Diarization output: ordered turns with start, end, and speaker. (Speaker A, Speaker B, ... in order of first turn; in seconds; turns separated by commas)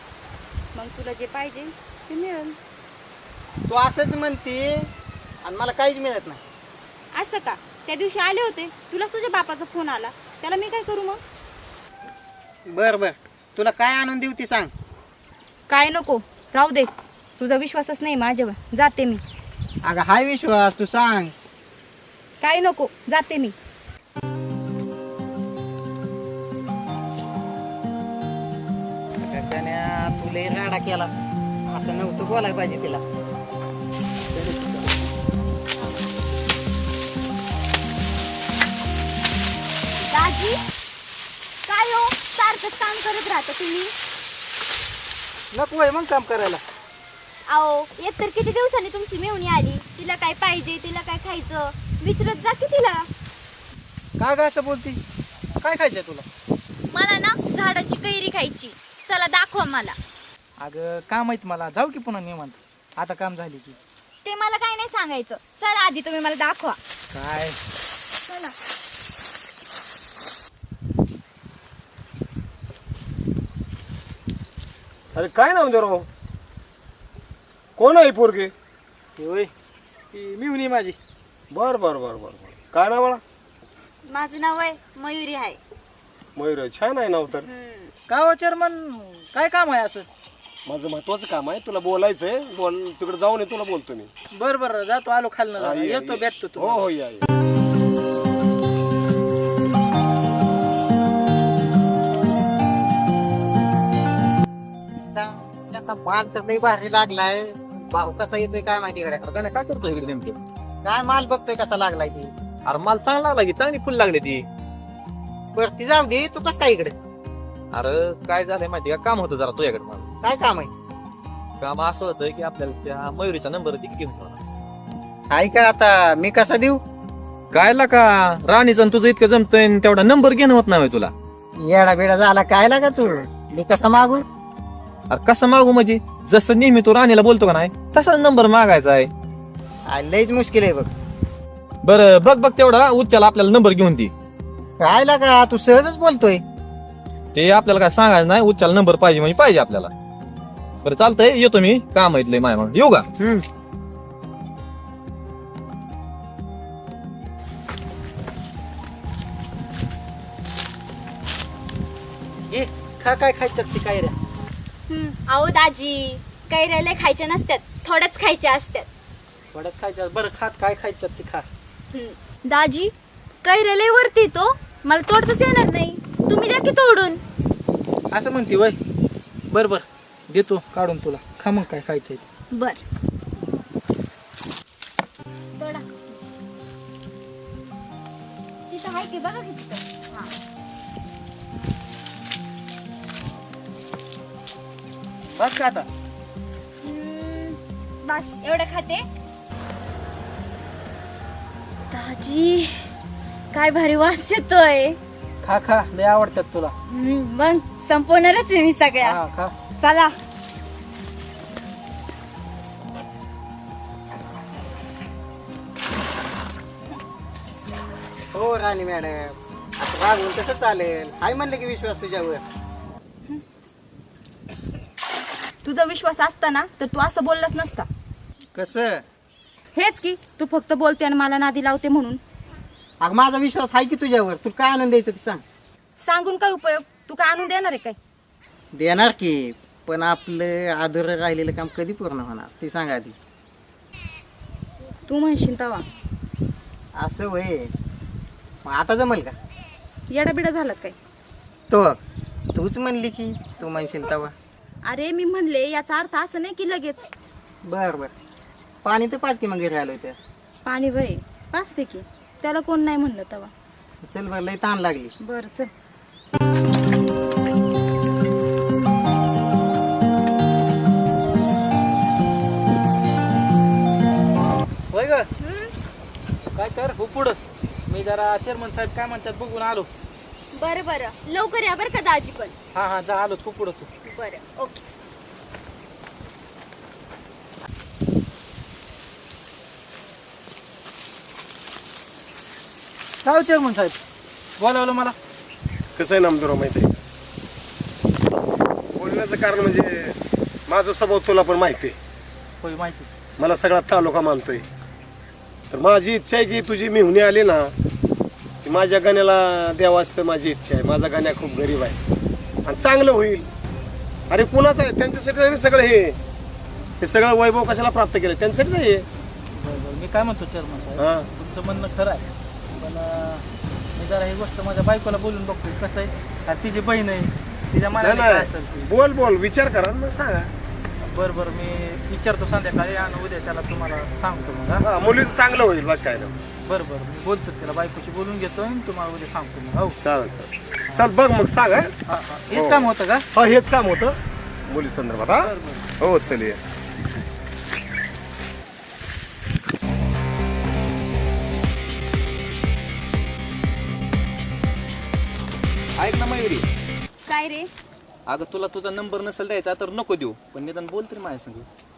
Speaker A: 0.7-2.6, Speaker B: 3.7-4.9, Speaker B: 5.4-6.4, Speaker A: 7.1-11.2, Speaker B: 12.7-14.7, Speaker A: 15.7-19.2, Speaker B: 19.9-21.3, Speaker A: 22.4-23.5, Speaker B: 29.2-31.1, Speaker B: 31.7-33.0, Speaker C: 40.0-40.6, Speaker C: 41.7-43.9, Speaker D: 45.5-46.6, Speaker C: 47.5-53.1, Speaker D: 54.2-55.0, Speaker D: 55.6-56.2, Speaker C: 56.9-60.0, Speaker D: 60.6-63.8, Speaker C: 64.2-66.8, Speaker D: 67.1-67.6, Speaker E: 75.1-76.0, Speaker E: 77.8-78.5, Speaker D: 79.2-79.5, Speaker D: 80.1-81.0, Speaker E: 81.5-83.2, Speaker C: 84.1-85.6, Speaker E: 86.3-87.5, Speaker C: 87.5-87.9, Speaker D: 88.1-90.1, Speaker E: 90.7-94.1, Speaker D: 94.3-96.9, Speaker E: 95.5-97.2, Speaker B: 105.1-109.5, Speaker F: 109.5-110.4, Speaker B: 110.8-112.3, Speaker F: 112.7-114.5, Speaker B: 115.5-116.9, Speaker F: 117.7-120.1, Speaker B: 120.2-120.7, Speaker F: 121.6-124.4, Speaker B: 125.3-126.8, Speaker F: 127.5-131.1, Speaker B: 131.6-134.2, Speaker F: 135.1-139.1, Speaker B: 139.9-140.9, Speaker F: 141.8-144.1, Speaker B: 144.8-146.4, Speaker F: 147.3-149.9, Speaker F: 150.8-153.4, Speaker D: 162.5-164.1, Speaker C: 164.9-168.9, Speaker D: 169.5-171.4, Speaker C: 171.9-172.9, Speaker C: 173.4-177.2, Speaker D: 178.1-178.8, Speaker D: 179.5-182.2, Speaker A: 188.8-189.8, Speaker C: 188.9-189.5, Speaker D: 195.3-195.9, Speaker C: 196.8-197.6, Speaker C: 198.1-199.0, Speaker C: 201.9-202.8, Speaker C: 203.5-205.0, Speaker D: 205.4-206.7, Speaker C: 206.9-208.9, Speaker D: 208.9-209.5, Speaker C: 209.8-210.2, Speaker B: 218.3-222.4, Speaker A: 225.6-227.9, Speaker B: 228.5-229.0, Speaker A: 229.7-232.2, Speaker B: 233.0-235.4, Speaker A: 236.0-238.0, Speaker B: 238.8-243.1, Speaker A: 245.1-245.9, Speaker B: 247.0-247.7, Speaker B: 248.6-249.3, Speaker A: 250.1-250.9, Speaker B: 251.7-252.0, Speaker B: 252.5-254.3, Speaker A: 254.8-257.1, Speaker B: 257.6-258.1, Speaker B: 258.8-260.1, Speaker A: 260.6-263.5, Speaker B: 264.1-265.1, Speaker A: 265.2-265.7, Speaker D: 274.9-275.3, Speaker C: 275.4-275.7, Speaker D: 276.6-277.4, Speaker D: 277.9-279.9, Speaker C: 280.6-282.5, Speaker D: 282.7-283.9, Speaker C: 284.1-284.8, Speaker D: 293.2-293.9, Speaker D: 294.6-295.1, Speaker E: 295.9-297.0, Speaker E: 298.9-301.9, Speaker D: 302.6-303.1, Speaker E: 303.4-304.6, Speaker E: 305.7-307.7, Speaker E: 308.6-312.0, Speaker E: 312.6-313.5, Speaker E: 314.3-316.2, Speaker E: 317.0-319.1, Speaker D: 319.6-323.4, Speaker E: 321.0-321.3, Speaker D: 323.9-328.9, Speaker E: 327.9-330.5, Speaker D: 331.0-334.9, Speaker E: 334.8-336.4, Speaker D: 336.6-340.0, Speaker E: 340.0-341.9, Speaker D: 342.1-343.2, Speaker E: 342.5-344.1, Speaker E: 344.7-346.6, Speaker D: 345.3-345.8, Speaker F: 356.0-356.7, Speaker C: 357.3-357.7, Speaker F: 358.2-361.7